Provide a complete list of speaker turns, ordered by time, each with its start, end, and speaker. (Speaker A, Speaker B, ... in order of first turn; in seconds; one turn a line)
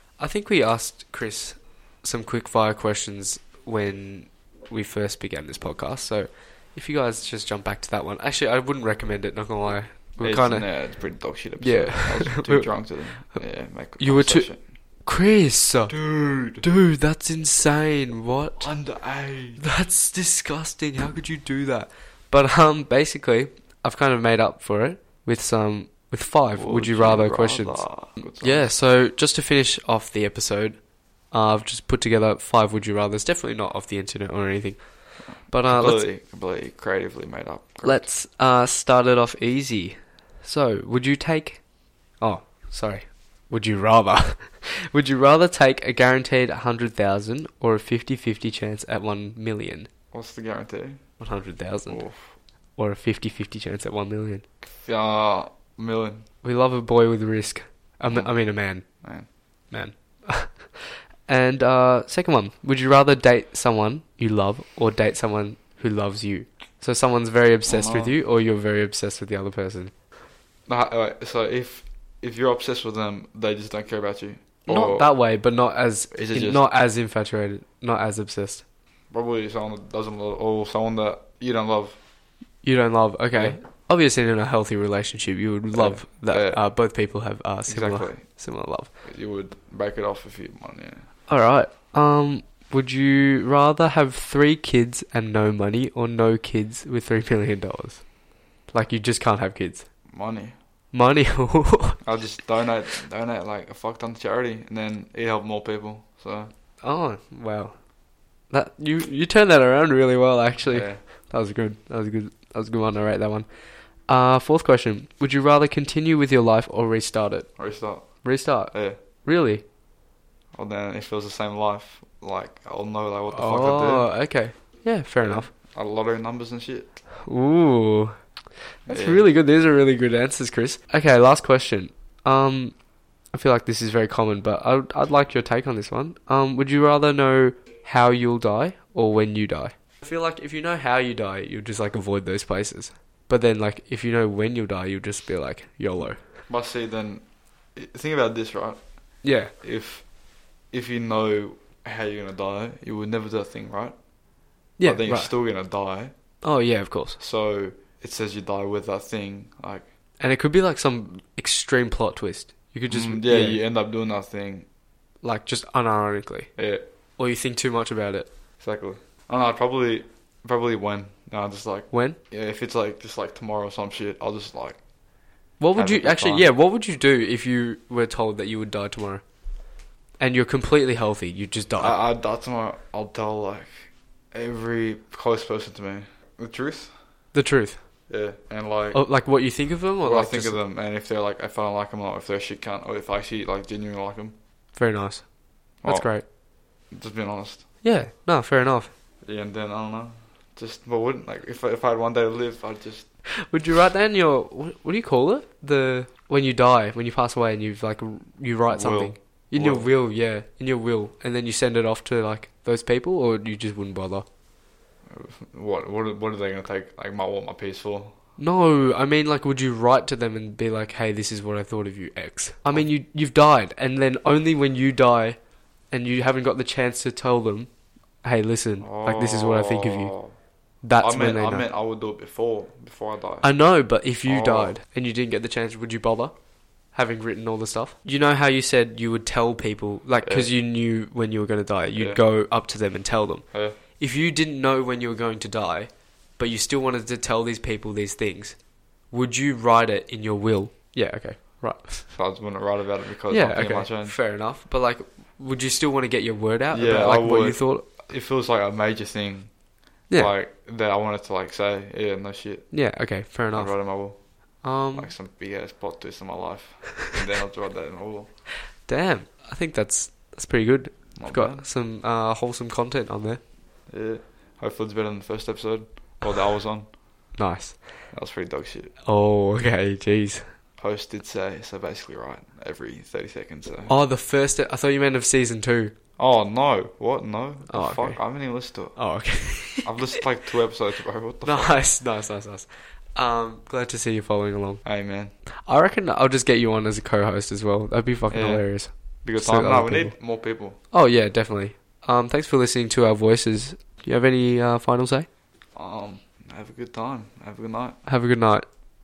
Speaker A: 0.2-36.1
Speaker B: 10.2-14.6
Speaker B: 15.9-16.7
Speaker B: 18.6-19.6
Speaker B: 26.5-28.7
Speaker B: 35.3-38.1
Speaker A: 37.8-41.6
Speaker A: 42.2-49.9
Speaker B: 50.1-51.0
Speaker A: 51.2-52.0
Speaker B: 51.9-52.4
Speaker A: 52.8-54.4
Speaker B: 54.9-56.3
Speaker A: 56.4-58.9
Speaker B: 58.1-58.4
Speaker B: 59.0-59.3
Speaker A: 59.7-69.9
Speaker B: 67.7-68.2
Speaker B: 70.7-75.1
Speaker A: 74.7-78.6
Speaker B: 76.1-76.7
Speaker B: 79.1-82.0
Speaker A: 82.6-88.9
Speaker B: 83.3-83.6
Speaker B: 85.7-86.7
Speaker B: 87.7-88.4
Speaker B: 89.0-91.0
Speaker A: 91.3-98.1
Speaker A: 98.7-99.9
Speaker B: 100.1-100.5
Speaker A: 100.9-102.0
Speaker B: 102.0-106.5
Speaker A: 106.8-107.8
Speaker A: 108.5-119.6
Speaker B: 110.6-111.0
Speaker B: 117.6-119.0
Speaker B: 120.5-124.1
Speaker A: 123.3-125.5
Speaker B: 125.2-126.9
Speaker A: 127.2-128.2
Speaker A: 128.8-132.8
Speaker B: 128.9-129.3
Speaker A: 133.3-146.2
Speaker B: 146.5-147.2
Speaker B: 147.8-150.1
Speaker A: 149.2-149.5
Speaker B: 150.7-154.0
Speaker A: 154.8-155.3
Speaker B: 154.8-156.1
Speaker A: 156.4-157.2
Speaker B: 157.2-159.9
Speaker A: 160.2-163.6
Speaker B: 162.9-164.7
Speaker A: 165.2-166.5
Speaker B: 166.6-166.8
Speaker A: 167.2-168.3
Speaker B: 168.6-174.8
Speaker A: 171.9-172.2
Speaker A: 175.6-179.2
Speaker B: 175.8-176.5
Speaker A: 180.2-182.0
Speaker B: 181.8-186.9
Speaker A: 187.3-187.9
Speaker B: 188.1-189.0
Speaker A: 188.9-190.6
Speaker B: 190.0-194.3
Speaker A: 194.7-196.2
Speaker B: 195.8-196.2
Speaker B: 196.9-197.7
Speaker A: 197.8-198.9
Speaker B: 199.2-203.2
Speaker A: 203.4-214.2
Speaker B: 208.7-209.9
Speaker B: 215.1-218.2
Speaker A: 218.4-225.4
Speaker A: 225.9-227.7
Speaker A: 228.2-230.1
Speaker B: 228.8-230.3
Speaker A: 230.8-231.7
Speaker B: 231.0-233.5
Speaker A: 233.4-236.3
Speaker B: 234.2-234.8
Speaker A: 236.9-252.1
Speaker B: 240.2-240.5
Speaker B: 241.9-242.2
Speaker B: 243.5-243.8
Speaker B: 252.1-254.2
Speaker A: 253.3-257.9
Speaker B: 256.7-259.5
Speaker B: 260.1-262.7
Speaker A: 262.7-263.8
Speaker B: 263.5-264.2
Speaker A: 264.6-265.1
Speaker B: 264.9-268.3
Speaker A: 268.8-273.4
Speaker B: 271.2-271.7
Speaker B: 273.9-276.9
Speaker A: 277.4-278.0
Speaker B: 278.1-278.9
Speaker A: 279.0-280.5
Speaker B: 280.8-283.9
Speaker A: 283.9-285.9
Speaker B: 286.2-291.8
Speaker A: 287.7-290.1
Speaker A: 291.4-294.8
Speaker B: 294.8-295.3
Speaker A: 295.7-300.2
Speaker B: 298.3-300.8
Speaker A: 300.9-305.3
Speaker B: 305.8-308.0
Speaker A: 308.1-308.7